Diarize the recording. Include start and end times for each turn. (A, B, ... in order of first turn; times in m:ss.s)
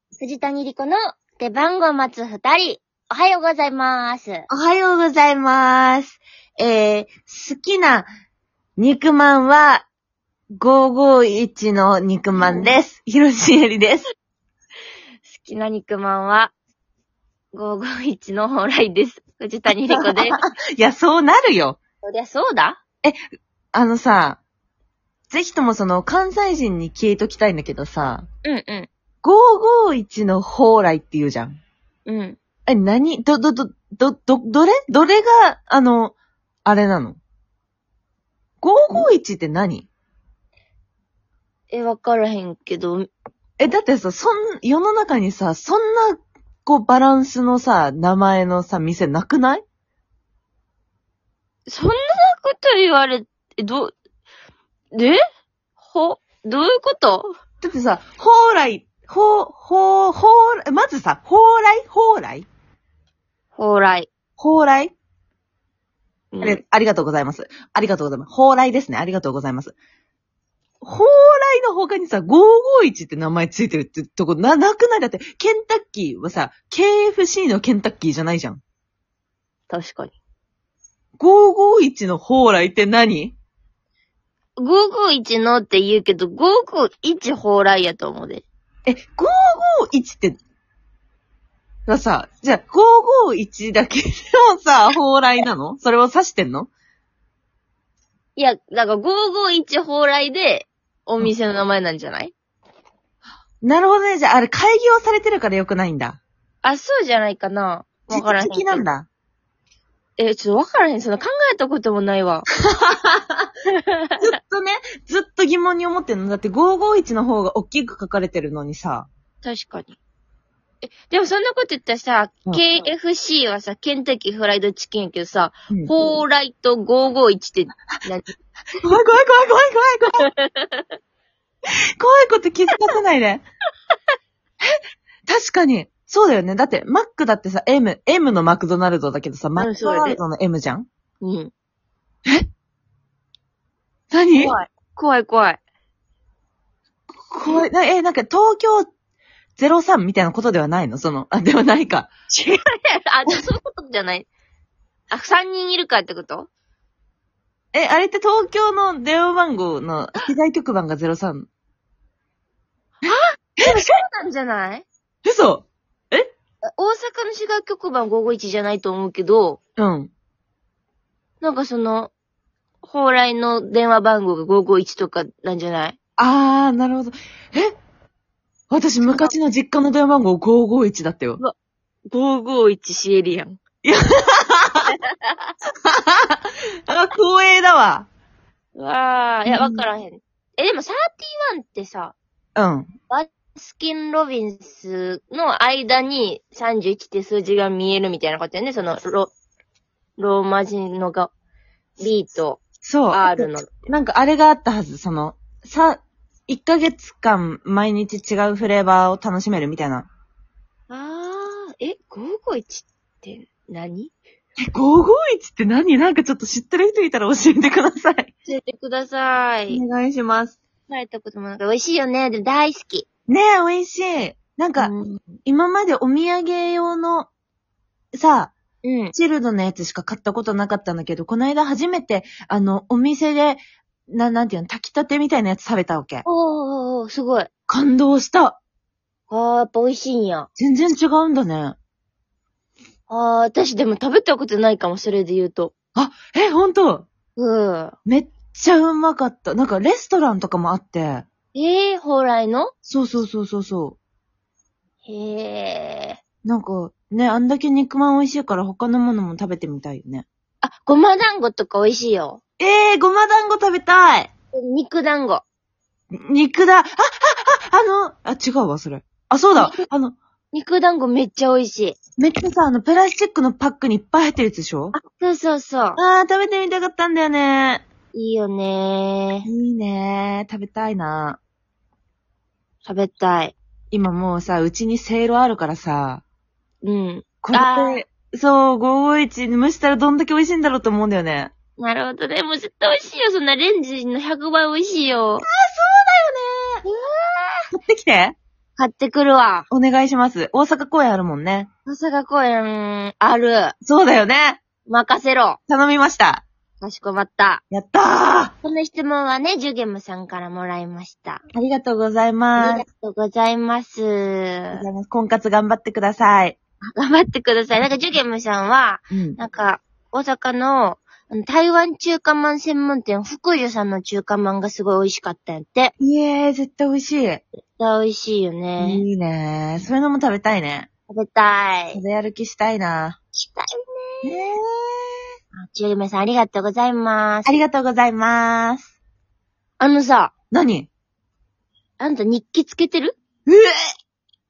0:00.2-0:04.5 A
0:04.5-0:08.1 B
0:08.8-0:09.8 B
0:10.5-0:14.1 B
0:12.4-0:12.7 A
0:15.3-0:16.5 A
0:17.5-0:20.4 A
0:19.9-0:21.8 B
0:22.0-0:22.8 A
0:23.7-0:24.4 B
0:25.3-0:28.3 B
0:28.4-0:28.9 A
0:29.2-0:31.6 B
0:32.1-0:32.4 A
0:32.7-0:37.2 B
0:38.6-0:39.9 B
0:41.7-0:43.1 A
0:43.6-0:49.6 B
0:51.7-0:53.9 A
0:54.9-0:55.2 A
0:55.8-0:57.3 A
0:57.6-1:02.5 B
1:03.6-1:04.1 A
1:04.4-1:04.9 B
1:06.3-1:06.6 A
1:06.4-1:09.8 B
1:10.8-1:18.6 B
1:19.7-1:20.2 A
1:21.2-1:23.4 B
1:24.6-1:28.4 A
1:28.9-1:30.4 B
1:31.9-1:36.7 B
1:38.4-1:42.3 A
1:43.6-1:46.2 B
1:46.6-1:48.8 A
1:48.1-1:49.1 B
1:50.2-1:52.5 A
1:52.8-1:53.5 B
1:53.8-1:54.2 A
1:54.2-1:59.1 B
1:59.4-2:00.0 A
2:00.8-2:08.3 A
2:08.8-2:10.3 B
2:10.2-2:10.9 A
2:12.0-2:13.4 B
2:15.3-2:20.9 B
2:19.6-2:20.2 A
2:21.2-2:21.5 A
2:24.1-2:24.6 B
2:24.4-2:25.6 A
2:27.3-2:28.9 B
2:29.6-2:32.1 B
2:32.3-2:34.3 A
2:35.1-2:36.5 A
2:37.7-2:41.5 B
2:43.0-2:44.9 A
2:43.1-2:43.7 B
2:45.2-2:46.3 B
2:46.6-2:49.6 A
2:49.8-2:50.1 B
2:51.4-2:52.1 A
2:52.8-2:56.0 A
2:56.2-2:57.8 B
2:58.7-3:01.4 B
2:59.0-2:59.3 A
3:02.1-3:03.6 A
3:03.8-3:04.9 B
3:04.9-3:05.5 A
3:05.9-3:08.1 B
3:08.8-3:12.2 A
3:09.5-3:09.8 B
3:12.6-3:12.9 B
3:13.1-3:19.3 A
3:20.2-3:21.3 A
3:22.0-3:22.6 A
3:22.8-3:30.1 B
3:23.1-3:23.7 A
3:30.9-3:34.1 A
3:34.6-3:38.3 B
3:38.5-3:39.8 A
3:39.7-3:40.6 B
3:40.9-3:43.1 A
3:43.3-3:44.9 B
3:44.8-3:45.2 A
3:45.4-3:47.3 B
3:48.1-3:48.5 B
3:48.8-3:49.2 A
3:49.1-3:56.2 B
3:56.2-3:57.5 A
3:57.7-3:58.6 B
3:59.3-4:00.5 A
4:00.6-4:01.8 B
4:03.1-4:05.7 A
4:06.0-4:07.1 B
4:07.4-4:08.0 A
4:08.0-4:11.3 B
4:11.5-4:12.7 A
4:12.8-4:14.0 B
4:15.0-4:16.2 A
4:16.4-4:20.3 B
4:20.6-4:22.4 A
4:22.6-4:24.3 B
4:24.5-4:25.4 A
4:26.1-4:30.2 B
4:29.6-4:29.8 A
4:30.5-4:32.0 A
4:32.2-4:35.0 B
4:34.9-4:36.0 A
4:36.0-4:37.8 B
4:38.1-4:39.5 A
4:39.5-4:41.4 B
4:42.8-4:43.6 A
4:43.9-4:46.2 B
4:46.8-4:48.0 A
4:47.4-4:51.5 B
4:51.8-4:55.5 A
4:55.4-4:56.8 B
4:56.8-4:57.7 A
4:57.7-4:58.4 B
4:58.8-4:59.7 A
4:59.7-5:01.7 B
5:01.9-5:03.8 A
5:03.8-5:04.6 B
5:04.9-5:05.6 A
5:05.7-5:06.4 B
5:06.8-5:07.6 A
5:07.7-5:08.5 B
5:08.6-5:11.4 A
5:11.5-5:12.8 B
5:12.6-5:14.8 A
5:14.7-5:16.6 B
5:16.9-5:25.9 A
5:19.1-5:19.4 B
5:26.0-5:27.4 B
5:27.8-5:29.0 A
5:28.8-5:30.9 B
5:31.1-5:32.0 A
5:31.9-5:33.2 B
5:33.4-5:34.3 A
5:34.2-5:35.1 B
5:35.5-5:37.6 A
5:37.4-5:38.9 B
5:39.8-5:40.3 A
5:40.5-5:40.9 B
5:42.0-5:43.2 A
5:43.5-5:43.8 B